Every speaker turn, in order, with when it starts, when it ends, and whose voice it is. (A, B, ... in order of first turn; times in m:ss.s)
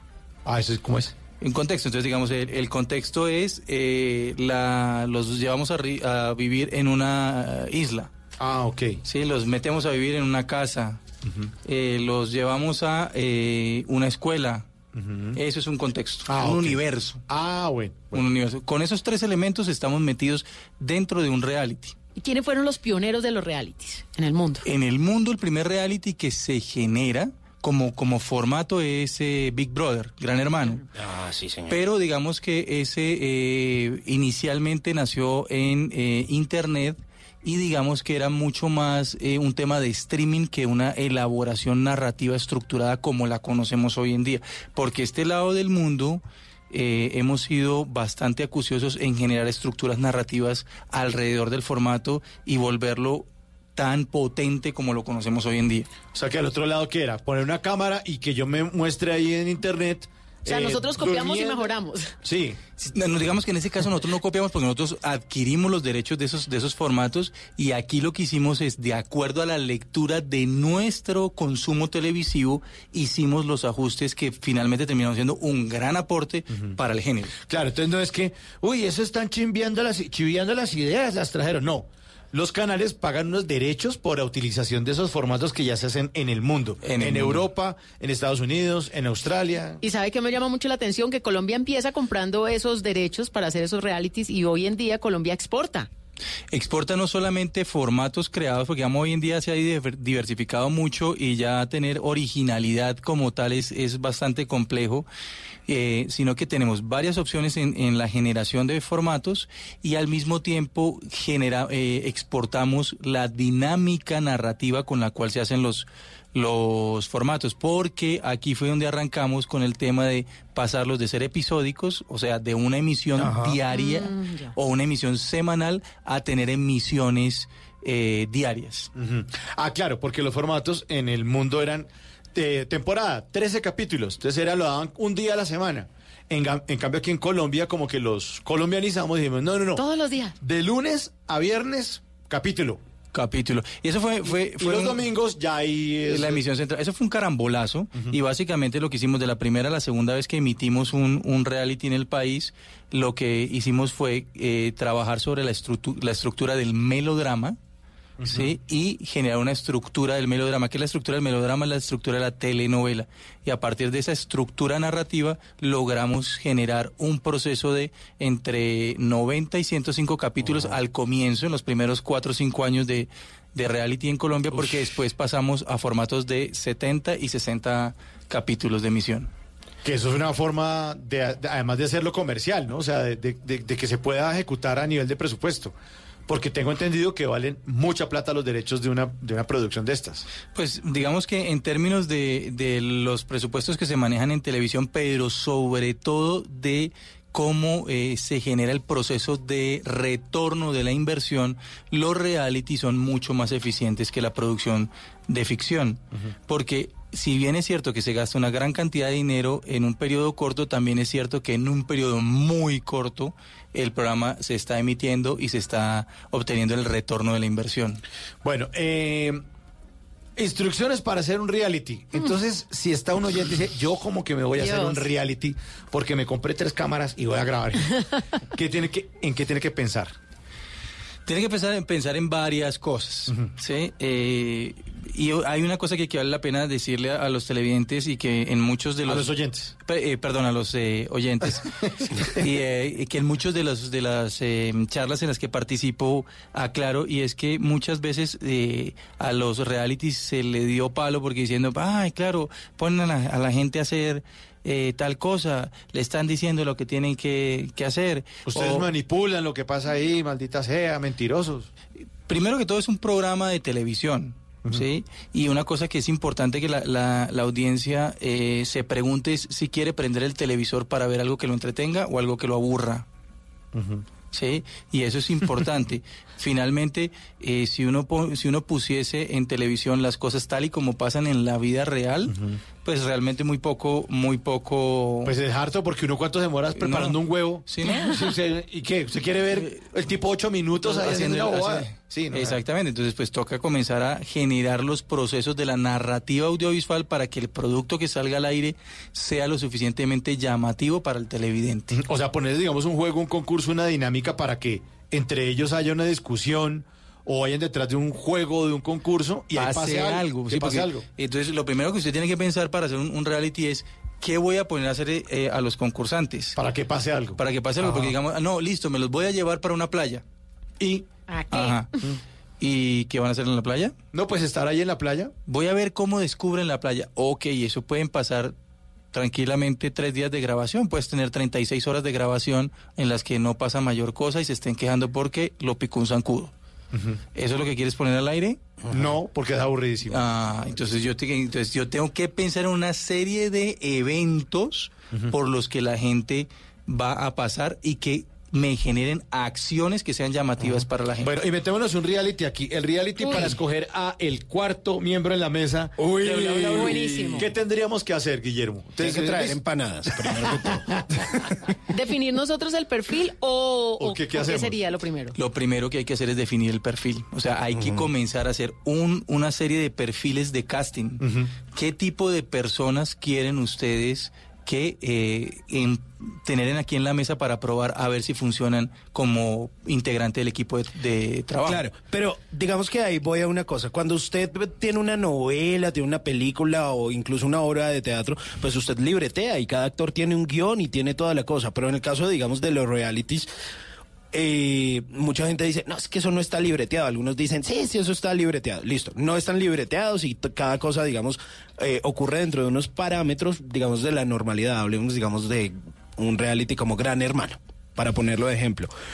0:00.4-0:01.2 A
0:01.4-0:08.1 B
0:08.4-0:09.0 A
0:09.1-0:11.0 B
0:11.2-0:11.5 A
0:11.6-0:14.7 B
0:14.9-0:15.4 A
0:15.4-0:17.2 B
0:16.3-0:18.2 A
0:18.1-0:21.9 B
0:22.2-0:24.6 C
0:24.6-0:30.8 B
0:30.9-0:31.8 D
0:31.7-0:55.9 B
0:56.1-1:01.7 A
1:00.5-1:02.1 C
1:02.2-1:02.6 A
1:02.8-1:17.3 B
1:16.5-1:16.8 A
1:17.3-1:29.8 A
1:26.8-1:27.5 B
1:29.8-1:35.9 C
1:36.5-1:45.1 B
1:45.7-2:08.9 B
2:03.2-2:03.6 D
2:03.7-2:04.5 C
2:08.9-2:19.8 A
2:19.8-2:20.4 C
2:20.4-2:22.8 A
2:23.1-2:25.1 B
2:24.6-2:26.4 A
2:26.1-2:37.6 B
2:38.2-2:38.5 A
2:38.2-2:59.3 B
2:59.8-3:05.7 A
3:06.3-3:10.2 A
3:10.5-3:38.0 B
3:38.4-3:39.4 A
3:40.4-3:47.9 A
3:44.6-3:45.1 C
3:48.5-3:50.1 A
3:51.2-4:01.7 B
3:53.3-3:53.5 A
3:59.0-3:59.7 A
4:02.3-4:18.9 B
4:18.4-4:21.7 A
4:22.2-4:33.0 B
4:33.7-4:34.0 A
4:34.3-4:45.3 B
4:42.3-4:42.6 A
4:45.2-4:52.6 A
4:46.7-4:48.3 B
4:47.8-4:48.1 C
4:49.5-4:49.9 B
4:50.8-5:01.9 B
5:01.9-5:11.0 A
5:09.5-5:16.6 B
5:16.6-5:18.1 A
5:17.4-5:20.2 B
5:20.8-5:21.1 A
5:21.3-5:21.8 C
5:21.5-5:21.9 B
5:22.6-5:23.9 B
5:24.1-5:25.3 A
5:25.5-5:28.5 B
5:29.1-5:36.5 B
5:36.9-5:37.2 A
5:37.3-5:38.6 B
5:38.8-5:39.1 D
5:38.9-5:40.2 A
5:40.1-5:51.3 B
5:51.2-5:59.6 A
5:53.2-5:53.6 C
5:56.0-5:57.4 D
5:56.6-5:57.5 C
5:59.0-6:01.4 D
6:00.3-6:00.9 A
6:01.9-6:05.3 C
6:04.0-6:04.8 A
6:05.3-6:21.9 B
6:07.7-6:08.1 D
6:11.2-6:11.5 A
6:21.6-6:33.5 D
6:34.3-6:48.9 D